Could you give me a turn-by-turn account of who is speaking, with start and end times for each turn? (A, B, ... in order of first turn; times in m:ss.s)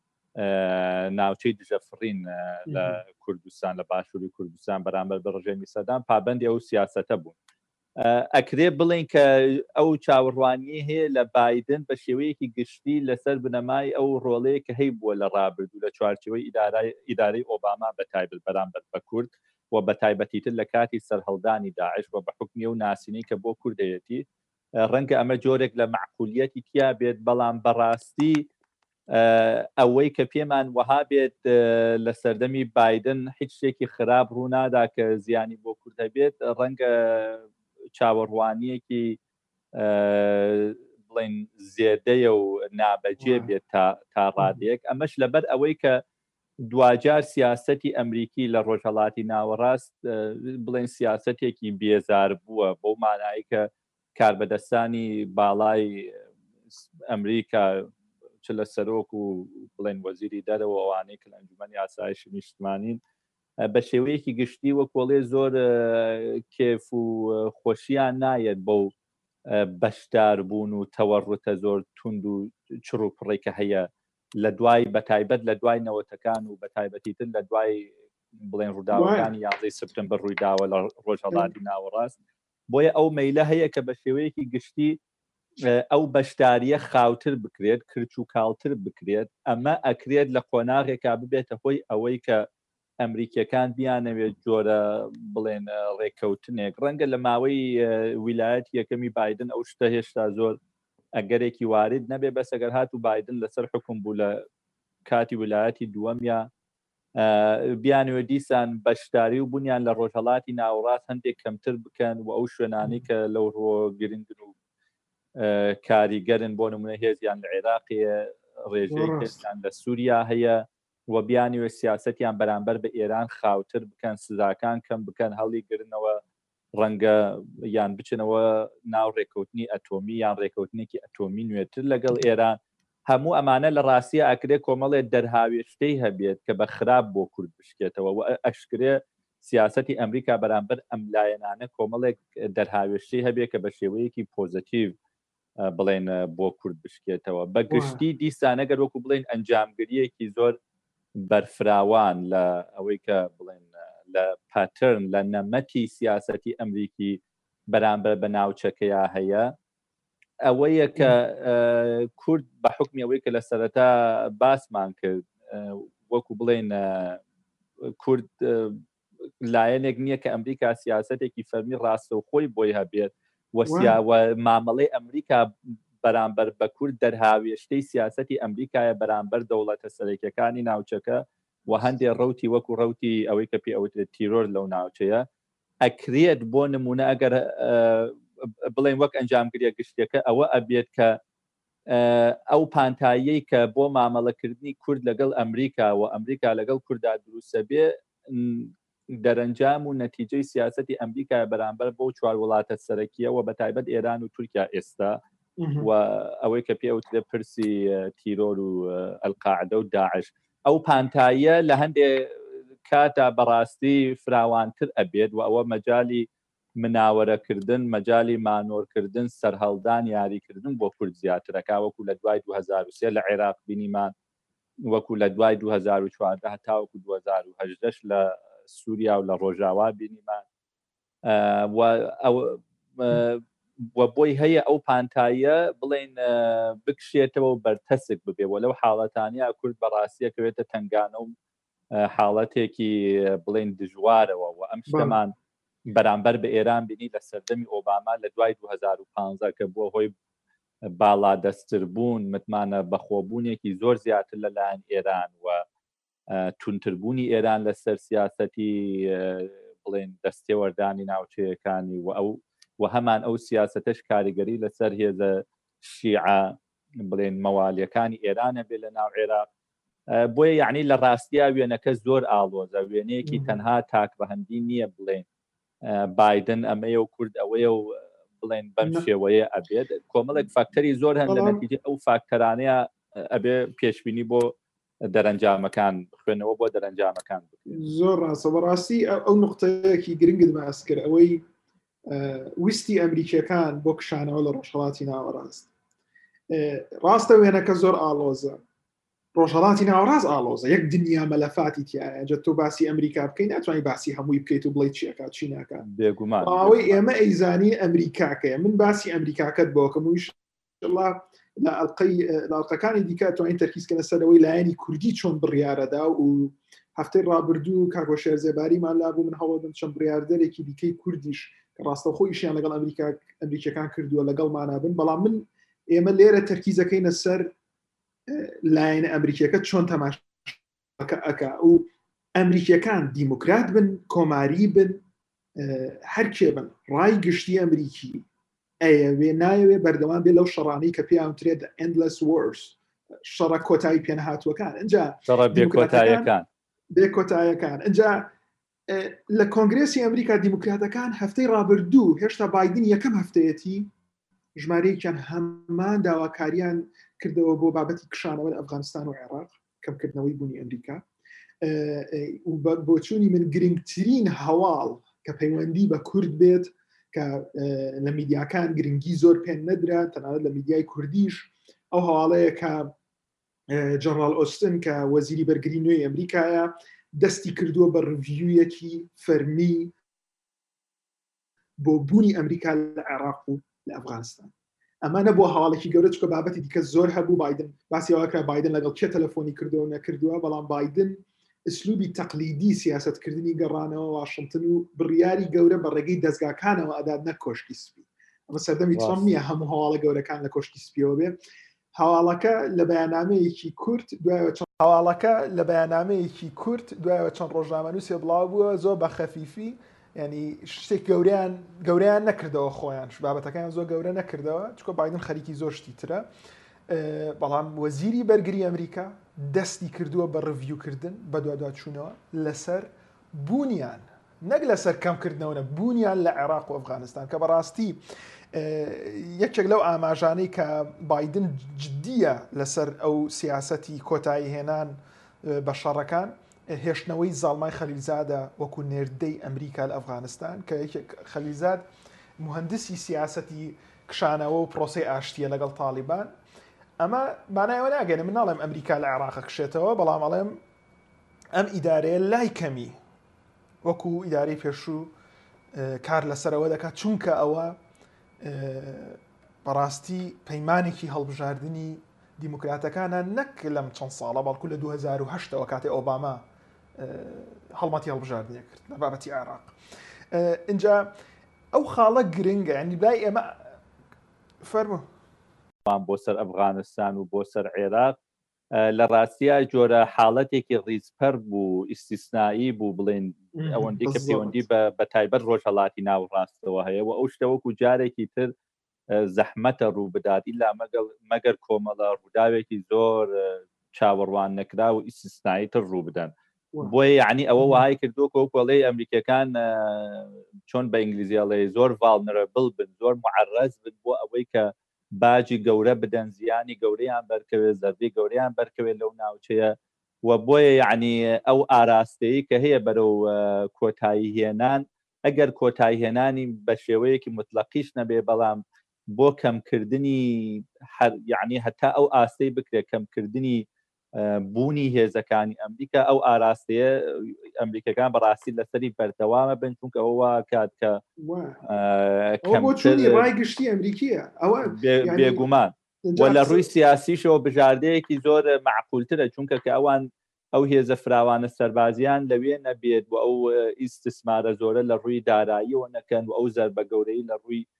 0:00.4-0:07.4 A
0:02.7-0:03.0 B
0:08.0-0:24.2 A
0:24.8-0:28.5 A
0:29.1-0:39.2 A
0:39.7-0:46.0 A
0:43.2-0:43.5 B
0:46.7-0:56.2 A
0:57.0-0:57.9 A
0:58.4-1:03.0 A
1:03.6-1:08.9 A
1:09.5-1:22.2 A
1:18.9-1:19.3 B
1:22.7-1:25.0 A
1:25.6-1:32.4 A
1:33.0-1:40.6 A
1:41.2-1:44.4 A
1:45.0-1:46.5 A
1:47.2-1:54.5 A
1:55.4-2:06.2 A
1:58.9-1:59.4 B
2:06.8-2:25.0 A
2:25.6-2:30.6 A
2:27.7-2:28.0 B
2:31.2-2:39.5 A
2:40.4-2:47.2 A
2:47.9-2:48.8 A
2:49.4-2:55.5 A
2:53.6-2:54.0 B
2:56.0-3:05.2 A
3:05.8-3:08.2 A
3:08.7-3:11.2 A
3:11.9-3:25.2 A
3:25.6-3:25.9 B
3:25.8-3:32.3 A
3:32.9-3:36.3 A
3:36.8-3:44.1 A
3:44.8-3:50.4 A
3:51.2-3:53.4 A
3:53.9-4:01.3 A
4:01.9-4:05.3 A
4:04.9-4:05.2 B
4:05.9-4:10.1 A
4:11.0-4:15.6 A
4:16.3-4:29.5 A
4:30.1-4:35.2 A
4:33.2-4:33.6 B
4:35.8-4:47.7 A
4:38.8-4:39.1 B
4:41.2-4:41.6 B
4:47.7-4:51.4 B
4:52.1-4:55.7 B
4:56.5-4:58.6 B
4:59.3-5:05.8 B
5:05.8-5:07.0 A
5:06.4-5:27.5 B
5:28.3-5:35.0 B
5:35.6-5:38.2 B
5:38.8-5:46.3 B
5:45.3-5:46.5 A
5:46.9-5:48.3 B
5:48.9-5:53.9 B
5:54.5-6:01.0 B
6:01.6-6:12.9 B
6:13.7-6:19.9 B
6:21.8-6:41.4 B
6:38.9-6:39.3 A
6:41.9-6:56.3 B
6:56.9-7:08.0 B
7:08.5-7:21.8 B
7:22.4-7:26.3 B
7:27.0-7:30.6 B
7:31.5-7:33.0 B
7:33.8-7:35.1 B
7:35.7-7:37.8 B
7:38.4-7:46.4 B
7:47.0-7:49.7 B
7:50.3-7:51.1 B
7:51.7-7:53.7 B
7:54.6-7:55.1 B
7:55.8-7:58.2 A
7:58.7-8:08.5 A
8:03.6-8:04.6 B
8:09.1-8:38.6 A
8:17.6-8:17.8 B
8:39.1-8:51.0 A
8:51.2-8:51.6 B
8:51.6-8:53.3 A
8:52.4-8:55.5 B
8:54.6-9:07.6 A
8:56.0-8:56.7 B